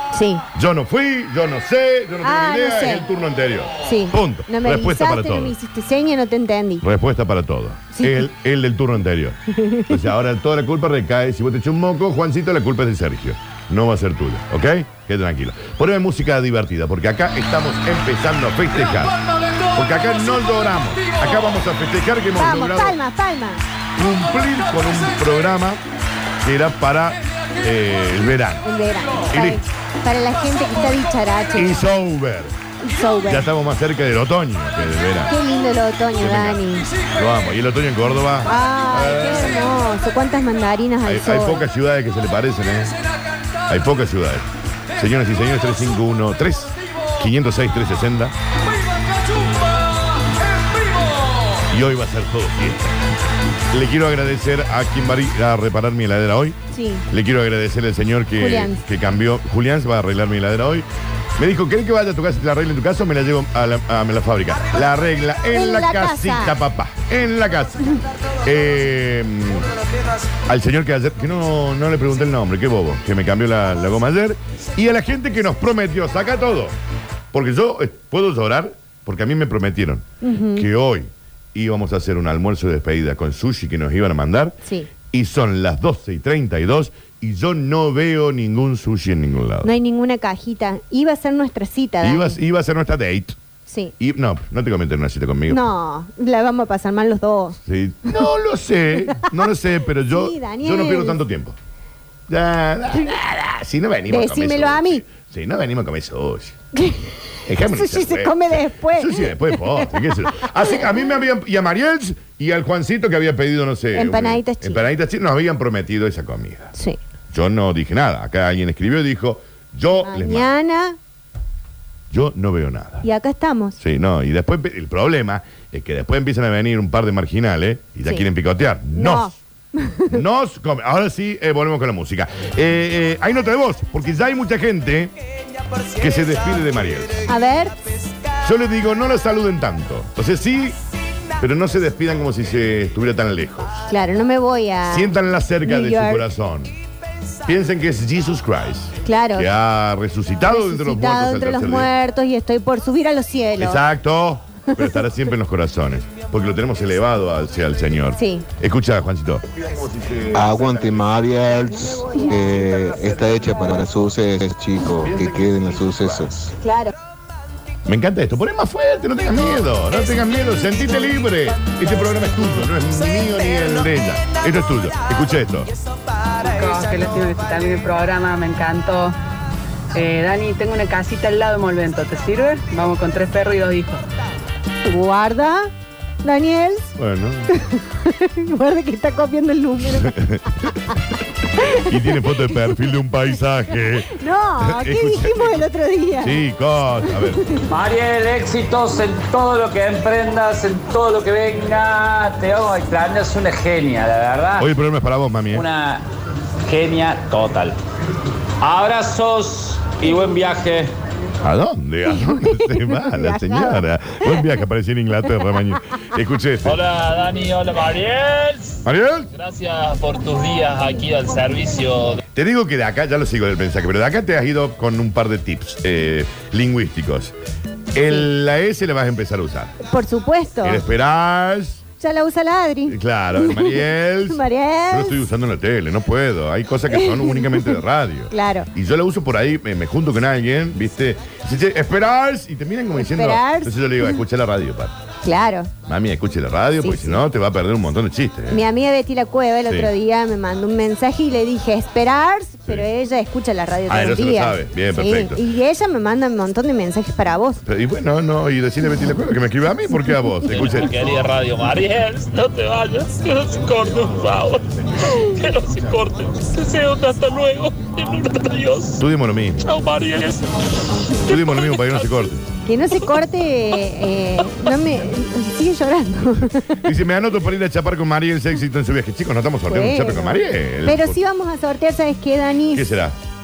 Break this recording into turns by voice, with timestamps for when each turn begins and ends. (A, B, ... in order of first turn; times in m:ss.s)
0:00.1-0:00.4 A
0:00.5-0:05.5 B
0:02.2-0:03.0 A
0:03.8-0:06.8 A
0:06.8-0:09.4 B
0:07.9-0:08.3 A
0:09.5-0:10.0 A
0:09.9-0:19.2 B
0:19.7-0:23.0 B
0:22.4-0:23.6 A
0:24.0-0:25.8 B
0:26.4-0:28.6 B
0:28.6-0:31.8 A
0:29.3-0:29.6 B
0:31.5-0:32.5 B
0:32.8-0:33.5 A
0:33.2-0:35.3 B
0:35.3-0:36.9 A
0:36.2-0:36.6 B
0:37.1-0:39.7 B
0:38.4-0:41.6 A
0:41.0-0:43.0 B
0:43.7-0:48.3 B
0:51.7-0:53.0 B
0:53.7-0:56.6 B
0:56.7-0:57.0 A
0:57.1-1:00.8 B
0:58.4-0:58.8 A
1:01.4-1:07.9 B
1:05.5-1:06.6 A
1:08.4-1:09.7 B
1:10.5-1:16.8 B
1:17.3-1:24.6 B
1:20.2-1:20.7 A
1:24.6-1:24.9 A
1:25.1-1:29.7 B
1:29.6-1:32.4 A
1:32.0-1:33.4 B
1:33.7-1:33.9 A
1:34.0-1:35.6 B
1:35.5-1:37.6 A
1:37.6-1:41.6 B
1:40.1-1:41.2 A
1:42.3-1:46.6 B
1:44.1-1:45.0 A
1:46.8-1:50.9 A
1:47.4-1:56.7 B
1:53.9-1:54.8 A
1:56.7-1:57.0 A
1:57.3-2:00.5 B
2:00.0-2:01.0 A
2:02.1-2:03.0 B
2:03.0-2:03.8 A
2:03.8-2:09.3 B
2:08.9-2:10.2 A
2:10.1-2:15.1 B
2:16.0-2:17.3 B
2:17.2-2:17.8 A
2:18.4-2:20.8 B
2:21.4-2:23.8 B
2:23.9-2:25.1 A
2:24.9-2:26.7 B
2:25.6-2:26.3 A
2:27.4-2:31.9 B
2:29.0-2:29.5 A
2:30.5-2:33.8 A
2:33.6-2:41.0 B
2:38.2-2:38.4 A
2:40.3-2:46.5 C
2:41.7-2:43.8 B
2:41.9-2:42.3 A
2:45.0-2:45.6 B
2:46.6-2:46.9 A
2:47.8-2:55.7 B
2:56.4-2:59.1 D
2:59.9-3:04.0 D
3:04.8-3:05.7 A
3:06.2-3:06.9 A
3:07.0-3:07.5 B
3:07.5-3:10.1 A
3:09.9-3:10.7 B
3:11.6-3:12.7 A
3:11.7-3:15.7 B
3:14.1-3:16.4 A
3:16.2-3:17.4 B
3:17.1-3:17.6 A
3:17.7-3:24.7 E
3:24.6-3:25.6 B
3:25.5-3:26.0 E
3:26.6-3:27.8 E
3:28.6-3:30.9 E
3:31.4-3:36.8 B
3:32.2-3:34.4 A
3:36.6-3:42.2 F
3:38.8-3:39.3 B
3:42.3-3:47.3 B
3:47.9-3:49.8 B
3:49.8-3:50.8 A
3:50.6-3:51.8 B
3:52.0-3:55.2 A
3:52.8-4:04.9 B
3:56.9-3:57.8 A
3:58.3-3:58.7 A
4:03.0-4:04.2 A
4:05.2-4:05.7 A
4:05.8-4:08.6 B
4:06.8-4:07.2 A
4:08.5-4:17.6 A
4:09.7-4:09.9 B
4:13.9-4:15.4 B
4:17.6-4:20.9 B
4:20.4-4:29.0 F
4:29.0-4:29.7 B
4:29.6-4:30.6 F
4:31.2-4:32.4 B
4:31.3-4:32.3 F
4:32.6-4:36.8 A
4:36.8-4:41.2 B
4:39.7-4:42.8 A
4:42.7-4:43.2 B